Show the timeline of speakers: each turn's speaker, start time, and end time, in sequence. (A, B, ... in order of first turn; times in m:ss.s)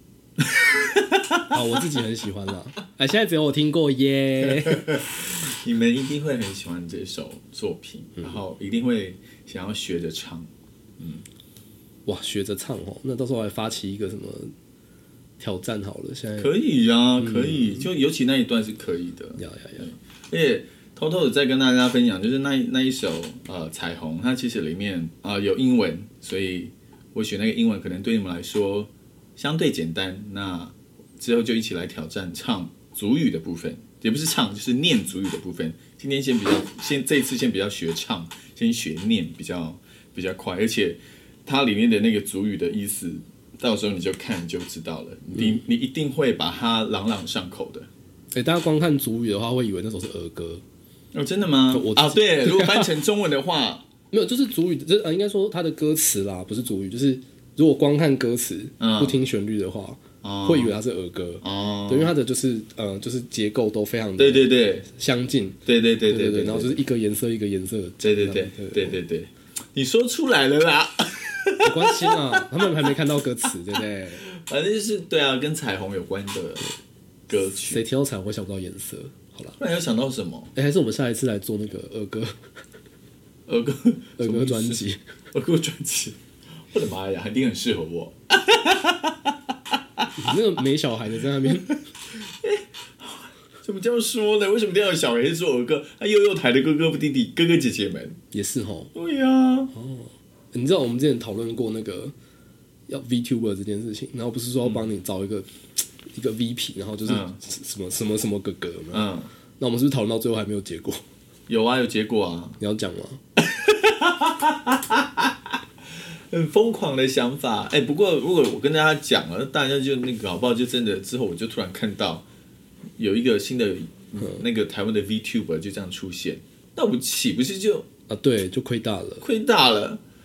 0:00.4-0:01.8 A
0:01.5-0:05.0 B
0:04.5-0:11.2 A
0:12.0-0:14.5 B
0:15.4-0:16.5 B
0:16.4-0:47.9 A
0:17.2-0:17.9 B
0:19.4-0:19.8 B
0:48.3-0:50.6 B
0:51.1-0:53.8 A
0:51.7-0:52.9 B
0:54.1-1:09.0 B
0:58.8-0:59.2 A
1:00.2-1:00.7 A
1:01.4-1:02.1 A
1:04.2-1:04.9 A
1:05.6-1:06.8 A
1:08.0-1:12.5 A
1:11.6-1:14.2 B
1:14.2-1:16.7 A
1:17.3-1:17.8 A
1:17.5-1:19.6 B
1:19.6-1:20.5 A
1:20.5-1:22.4 B
1:23.5-1:26.2 A
1:24.2-1:25.0 B
1:26.7-1:30.1 A
1:30.2-1:31.8 B
1:31.4-1:38.2 A
1:38.3-1:38.9 B
1:38.9-1:39.7 A
1:39.7-1:42.1 B
1:42.9-1:49.1 B
1:47.1-1:47.4 A
1:48.9-1:49.3 A
1:49.6-1:51.0 B
1:51.5-1:52.6 A
1:52.6-1:53.2 B
1:53.4-2:02.2 A
2:03.0-2:07.9 A
2:08.1-2:09.2 B
2:09.2-2:10.0 A